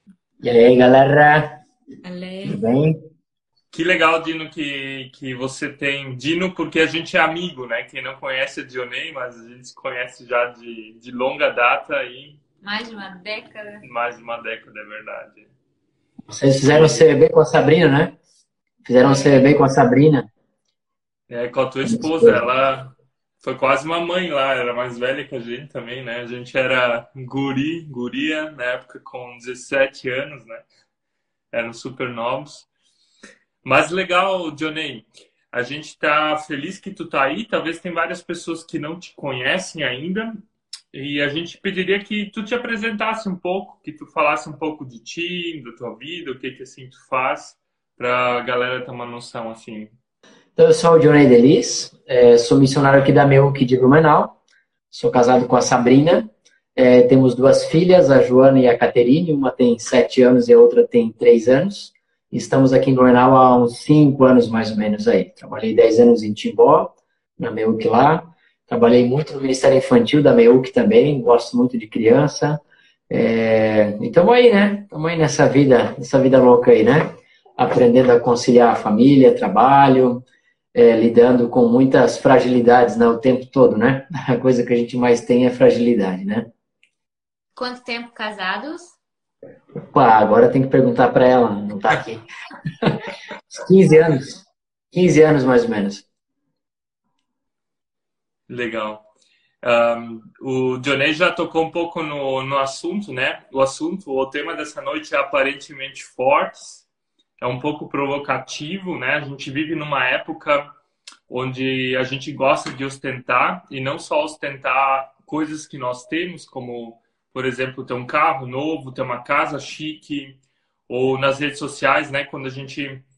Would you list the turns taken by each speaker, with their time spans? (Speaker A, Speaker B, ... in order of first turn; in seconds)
Speaker A: 0.4-1.6, 2.5-3.0, 16.3-18.2, 18.9-20.3, 21.9-22.5, 50.6-54.4, 54.9-86.5, 89.9-92.2, 93.5-94.4, 94.9-96.0
Speaker B: 2.0-2.6, 12.6-13.8, 19.0-19.5, 87.5-89.0
Speaker C: 3.7-12.4, 13.8-15.5, 21.3-30.6, 31.5-32.7, 33.6-40.4, 40.9-49.9, 98.5-99.0, 99.6-106.8, 107.4-110.7, 111.3-123.0